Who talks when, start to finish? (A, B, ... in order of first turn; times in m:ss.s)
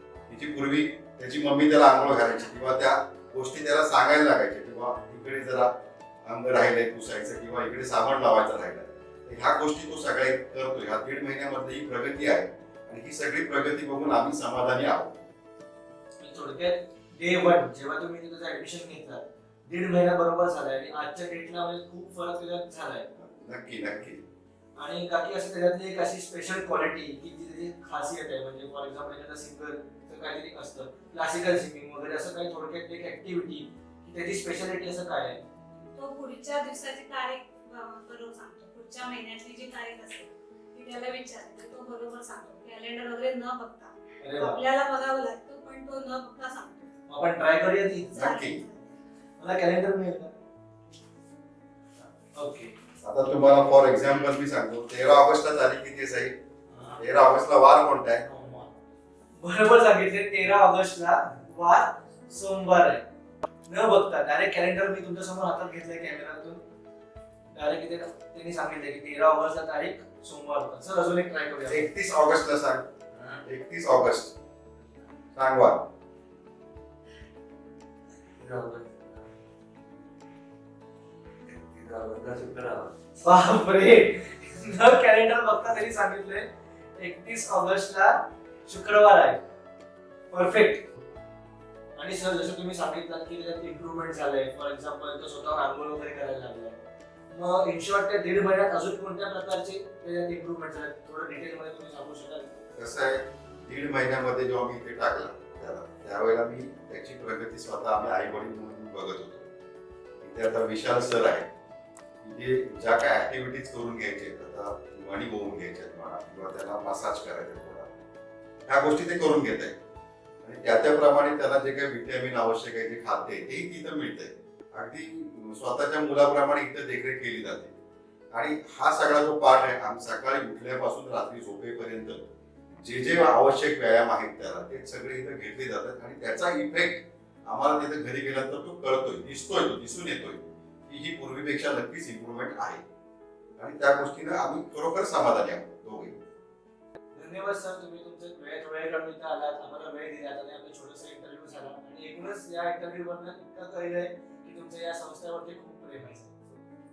0:00.3-0:15.2 A
0:16.2-0:23.0 B
0:23.1-0:24.2 A
0:24.7-0:35.4 B
0:36.0-0:46.9 C
0:44.2-0:44.6 B
0:47.1-0:48.1 B
0:48.1-0:48.6 A
0:48.1-0:48.9 C
0:49.4-0:50.3 B
0:52.3-0:52.7 B
0:53.0-0:56.3 A
0:56.7-0:57.0 B
0:57.0-0:58.2 A
0:58.2-0:58.7 B
0:59.4-1:03.0 B
1:03.7-1:06.6 B
1:07.5-1:11.8 B
1:11.7-1:14.3 A
1:15.3-1:15.9 A
1:23.2-1:29.4 B
1:30.3-1:30.8 B
1:31.9-1:42.6 B
1:42.8-1:49.5 A
1:50.2-1:51.5 A
1:52.2-1:57.9 A
1:58.6-1:59.7 A
2:00.4-2:07.8 A
2:08.3-2:22.8 A
2:23.6-2:26.2 A
2:27.1-2:36.5 B